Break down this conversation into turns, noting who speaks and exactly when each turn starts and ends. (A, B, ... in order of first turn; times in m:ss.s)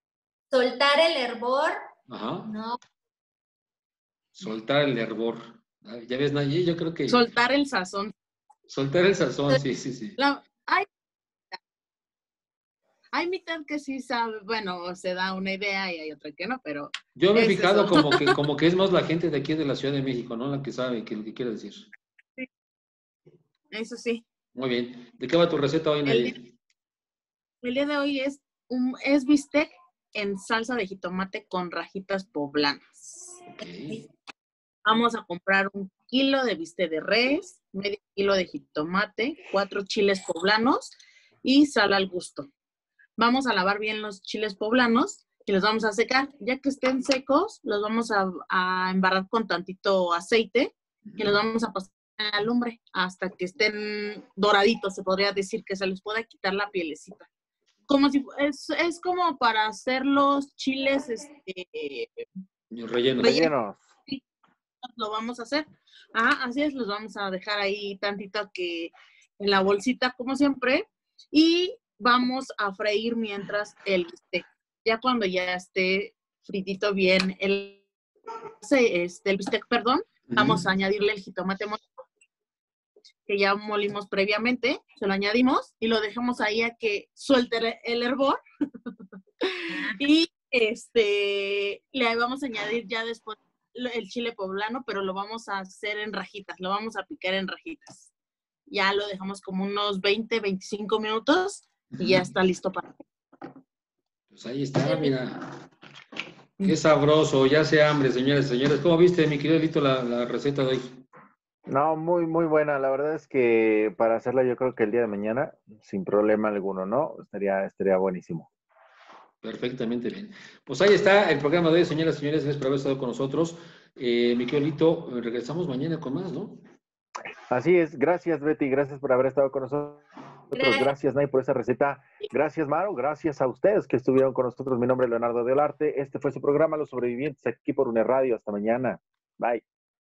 0:00.5-0:01.8 A
0:02.1-0:02.5 B
0:02.5-0:02.8 A
0:04.3-0:07.2 B
0:07.1-0:08.1 C
0:08.7-0:10.2 B
0:10.2-0:10.9 C
0:13.1-0:18.3 C
0:17.2-0:21.9 B
0:23.7-0:24.2 C
0:24.6-0:26.5 B
0:26.1-0:26.4 C
0:27.6-0:33.4 C
0:33.6-0:34.1 B
0:34.8-0:42.5 C
0:43.2-0:57.3 C
0:51.1-0:51.3 B
0:57.9-1:02.3 C
1:02.7-1:03.5 B
1:03.2-1:03.8 D
1:03.2-1:03.5 C
1:04.8-1:17.8 C
1:18.6-1:21.8 C
1:20.3-1:20.7 B
1:23.3-1:38.1 C
1:29.7-1:30.0 A
1:38.7-1:42.9 C
1:41.9-1:42.3 B
1:44.3-1:45.7 B
1:46.6-1:51.0 B
1:51.7-1:58.5 D
1:59.4-2:06.6 B
2:07.5-2:19.6 D
2:10.5-2:10.9 A